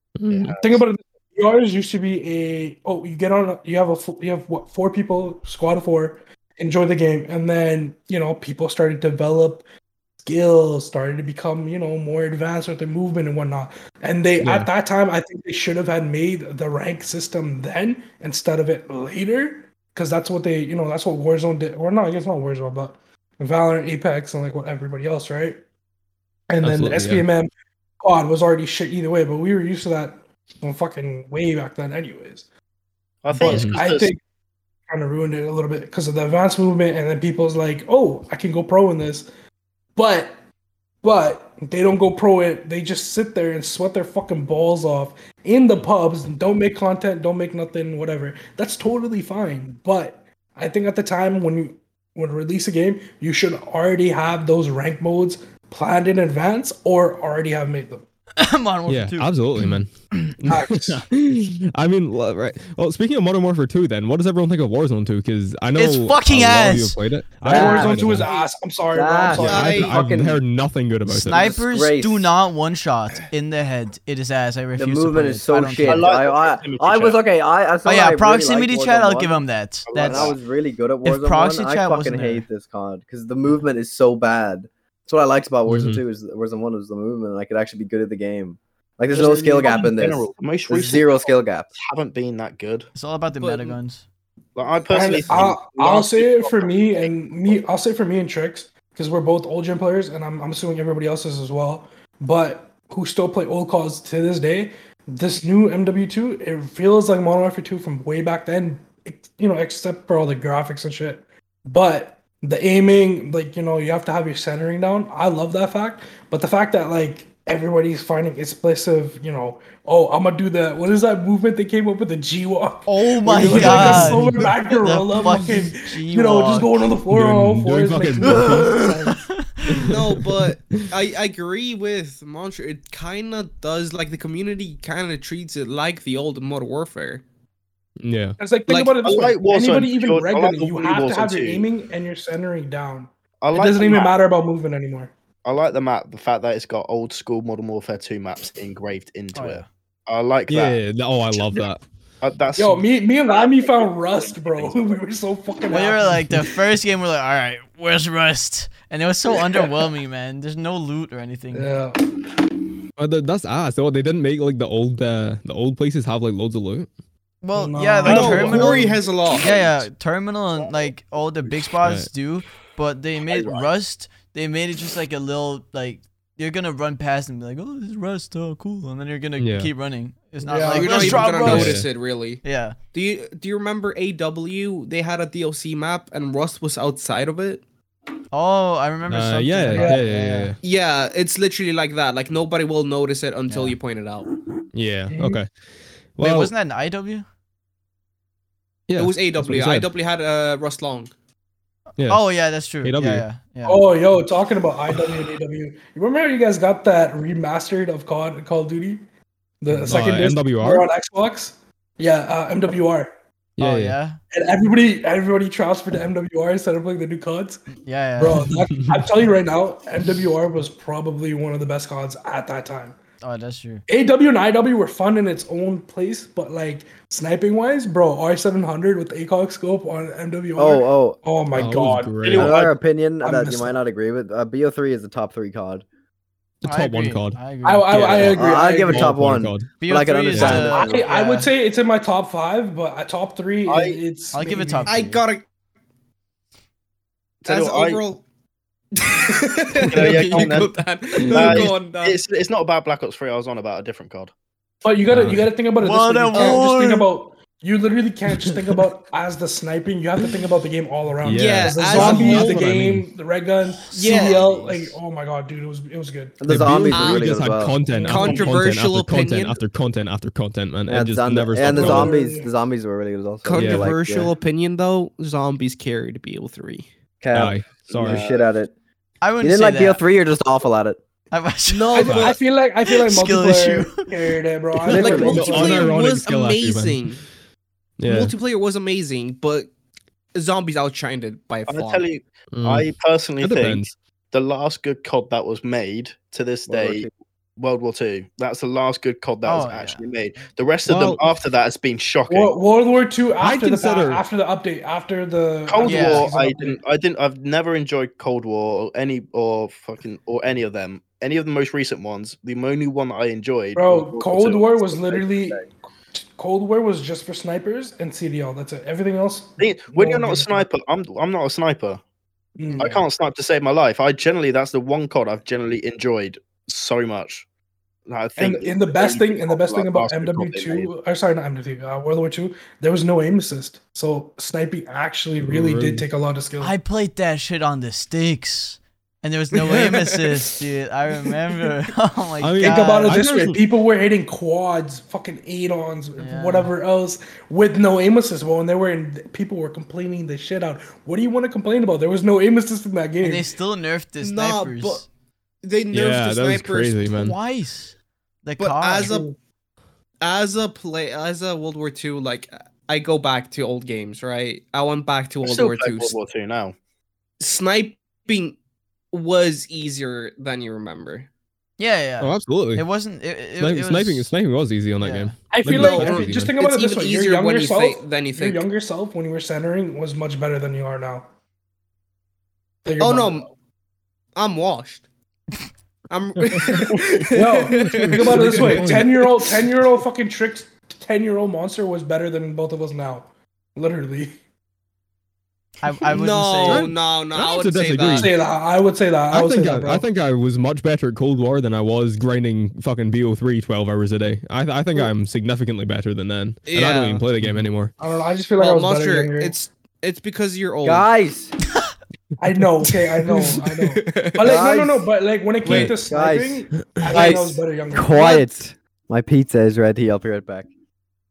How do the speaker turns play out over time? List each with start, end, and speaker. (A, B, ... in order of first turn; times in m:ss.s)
0:00.2-0:00.5 A
0:00.3-0:00.8 B
0:00.5-0:09.6 C
0:10.2-0:25.6 C
0:14.4-0:14.7 A
0:26.5-0:32.4 C
0:26.6-0:27.3 A
0:33.2-0:34.1 B
0:33.3-0:34.2 C
0:33.4-0:33.8 A
0:34.9-0:39.3 C
0:40.0-0:40.4 C
0:41.0-0:58.0 C
0:58.4-0:59.8 D
0:58.9-1:08.3 A
1:00.5-1:01.0 C
1:05.8-1:07.0 D
1:07.5-1:08.2 E
1:07.5-1:09.9 C
1:08.2-1:08.5 F
1:08.9-1:10.4 E
1:09.3-1:11.5 A
1:09.4-1:10.0 F
1:11.1-1:16.1 D
1:11.3-1:12.3 E
1:14.8-1:19.4 E
1:15.8-1:17.2 B
1:17.8-1:20.4 D
1:19.9-1:20.4 B
1:20.0-1:31.7 E
1:21.0-1:22.5 D
1:25.7-1:26.0 A
1:29.1-1:32.9 B
1:29.1-1:29.9 C
1:33.0-1:34.0 D
1:33.4-1:33.8 F
1:34.6-1:37.6 B
1:34.9-2:09.2 C
2:02.9-2:06.7 D
2:03.3-2:04.2 F
2:03.5-2:04.5 A
2:07.1-2:08.8 A
2:08.2-2:09.6 D
2:09.7-2:10.9 A
2:09.8-2:17.2 F
2:18.0-2:18.4 A
2:18.4-2:25.1 C
2:19.0-2:21.7 B
2:23.4-2:24.2 B
2:25.4-2:30.8 B
2:29.4-2:29.6 D
2:30.5-2:31.8 A
2:31.4-2:31.6 B
2:32.2-2:35.0 B
2:32.6-2:36.5 C
2:35.7-2:41.7 D
2:39.3-2:39.9 C
2:41.5-2:42.2 C
2:43.0-2:46.9 A
2:47.4-3:01.9 D
2:47.5-2:49.0 C
2:48.0-2:49.6 F
2:51.8-2:52.1 A
2:53.3-2:53.7 B
2:59.4-2:59.7 A
3:00.4-3:01.4 C
3:00.6-3:07.6 F
3:01.3-3:01.9 A
3:02.4-3:02.8 D
3:08.3-3:10.6 D
3:09.1-3:10.6 A
3:09.7-3:10.0 C
3:10.6-3:14.3 F
3:13.5-3:13.8 D
3:14.7-3:15.5 A
3:15.1-3:15.4 C
3:16.2-3:16.5 A
3:16.2-3:17.2 D
3:18.9-3:19.9 A
3:19.0-3:21.1 F
3:22.0-3:22.2 A
3:22.0-3:24.0 D
3:22.8-3:23.2 A
3:23.7-3:29.0 C
3:29.6-3:33.1 C
3:29.8-3:30.9 A
3:33.6-3:34.0 A
3:33.6-3:34.2 D
3:34.3-3:37.7 C
3:37.8-3:38.6 D
3:38.2-3:43.0 C
3:43.2-3:43.8 D
3:43.9-3:53.8 C
3:50.6-3:51.2 E
3:51.5-3:52.6 A
3:52.3-3:52.7 B
3:52.3-3:55.8 E
3:56.6-3:59.7 A
3:56.6-3:58.3 D
3:57.6-3:59.2 C
3:58.2-4:01.1 E
3:59.8-4:01.5 D
4:00.3-4:00.6 A
4:00.4-4:04.9 C
4:03.7-4:04.0 B
4:04.3-4:05.2 D
4:04.8-4:05.4 F
4:07.4-4:08.0 B
4:07.4-4:08.2 F
4:09.0-4:12.2 F
4:09.9-4:10.7 B
4:11.3-4:14.3 B
4:11.4-4:11.7 A
4:14.8-4:26.4 C
4:15.1-4:15.5 A
4:15.6-4:17.1 D
4:16.3-4:16.6 F
4:21.2-4:23.1 A
4:21.3-4:22.7 F
4:23.9-4:24.5 F
4:24.0-4:24.4 D
4:26.4-4:27.8 E
4:26.5-4:32.2 A
4:26.9-4:27.3 F
4:27.9-4:28.6 C
4:28.0-4:29.6 F
4:30.9-4:34.3 E
4:31.6-4:32.5 C
4:33.4-4:36.9 F
4:33.5-4:33.9 A
4:37.2-4:38.7 E
4:37.3-4:38.2 A
4:38.0-4:38.5 B
4:39.2-4:40.0 D
4:39.4-4:41.0 E
4:41.3-4:42.1 D
4:41.7-4:42.4 F
4:41.9-4:45.9 C
4:42.0-4:42.4 A
4:42.8-4:44.1 D
4:44.9-4:45.6 E
4:44.9-4:47.0 A
4:44.9-4:47.2 F
4:48.0-4:48.3 A
4:48.0-4:49.7 F
4:50.3-4:52.0 F
4:51.7-5:02.6 B
4:52.5-4:52.9 A
4:53.4-4:54.0 A
4:56.7-4:57.1 E
4:59.4-5:00.0 D
5:00.9-5:01.2 A
5:02.3-5:06.8 C
5:03.4-5:04.2 A
5:05.7-5:15.7 B
5:05.8-5:06.3 D
5:13.8-5:20.7 C
5:19.6-5:22.0 B
5:22.6-5:23.0 C
5:22.8-5:27.5 B
5:28.1-5:30.9 B
5:28.4-5:36.7 C
5:35.4-5:36.1 A
5:36.6-5:43.3 D
5:39.5-5:40.6 F
5:42.4-5:43.6 A
5:42.6-5:53.5 C
5:46.2-5:46.7 D
5:53.2-5:55.1 D
5:54.2-5:55.1 F
5:55.6-5:57.0 F
5:55.9-5:57.4 A
5:57.1-5:59.2 D
5:58.6-5:59.3 F
5:59.0-5:59.4 C
6:00.2-6:06.2 F
6:05.4-6:06.8 B
6:07.4-6:08.6 F
6:09.1-6:11.3 F
6:11.8-6:14.3 D
6:12.2-6:12.8 A
6:13.6-6:16.5 A
6:15.0-6:15.4 D
6:15.5-6:21.3 C
6:15.7-6:18.7 F
6:22.8-6:23.4 C
6:23.0-6:23.5 F
6:24.4-6:25.0 F
6:26.1-6:29.0 F
6:26.4-6:26.9 A
6:26.7-6:34.4 C
6:27.7-6:29.4 A
6:35.8-6:36.9 D
6:36.0-6:38.3 F
6:36.7-6:38.3 A
6:38.1-6:40.0 C
6:39.3-6:47.9 A
6:46.7-6:47.2 F
6:48.0-6:49.6 C
6:48.6-6:51.1 F
6:50.8-6:51.5 E
6:52.4-6:58.4 C
6:53.6-6:54.6 F
6:54.4-6:55.1 E
6:55.6-6:56.0 F
6:56.0-7:00.7 E